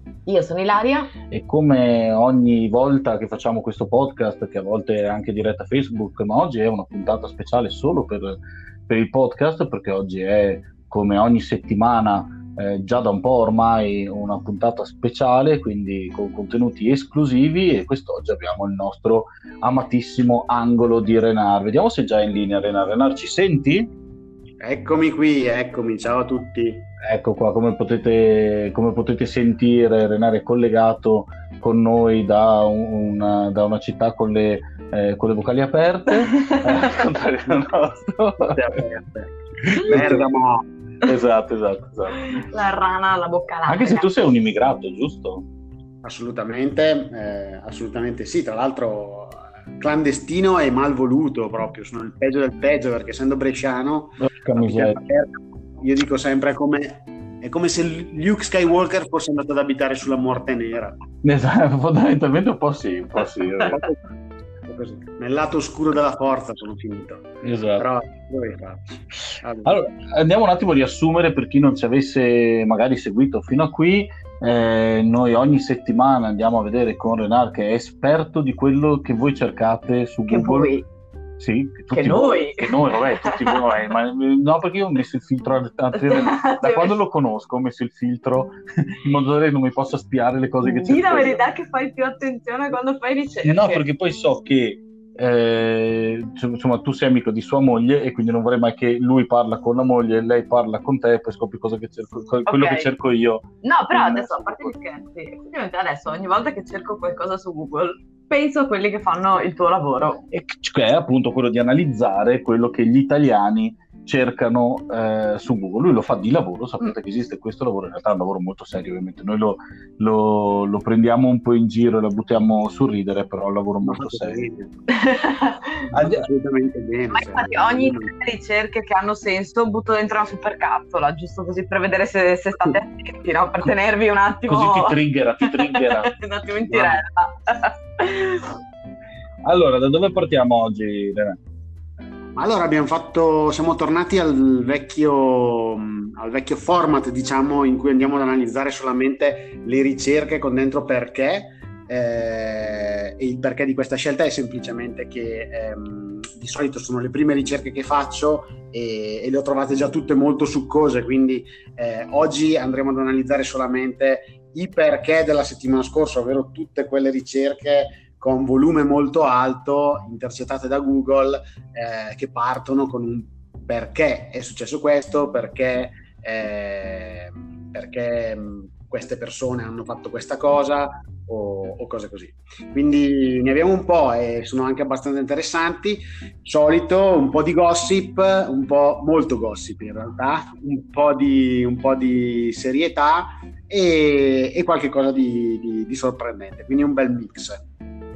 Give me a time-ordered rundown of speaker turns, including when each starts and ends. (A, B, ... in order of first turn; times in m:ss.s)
0:00.2-0:01.1 A
0:01.3-0:23.9 B
0:24.6-0:26.8 C
0:27.0-0:38.6 B
0:36.3-0:36.9 A
0:38.4-0:40.7 C
0:39.6-0:40.2 B
0:41.0-0:42.4 B
0:42.2-0:44.1 A
0:43.7-0:45.4 B
0:46.0-1:01.0 C
0:54.2-0:55.0 B
1:01.2-1:03.8 B
1:03.7-1:04.0 C
1:04.6-1:09.8 C
1:07.4-1:07.9 B
1:09.6-1:20.7 B
1:20.3-1:20.8 A
1:21.4-1:31.4 B
1:21.9-1:23.8 A
1:26.0-1:26.9 A
1:30.6-1:33.8 A
1:33.4-1:44.7 B
1:42.4-1:42.9 A
1:43.6-1:50.2 A
1:50.3-2:04.4 B
2:03.8-2:04.7 C
2:04.9-2:05.9 A
2:05.9-2:08.1 C
2:06.0-2:06.2 B
2:07.1-2:18.5 A
2:14.5-2:16.1 B
2:16.7-2:17.0 B
2:19.4-2:21.4 B
2:22.4-3:17.6 C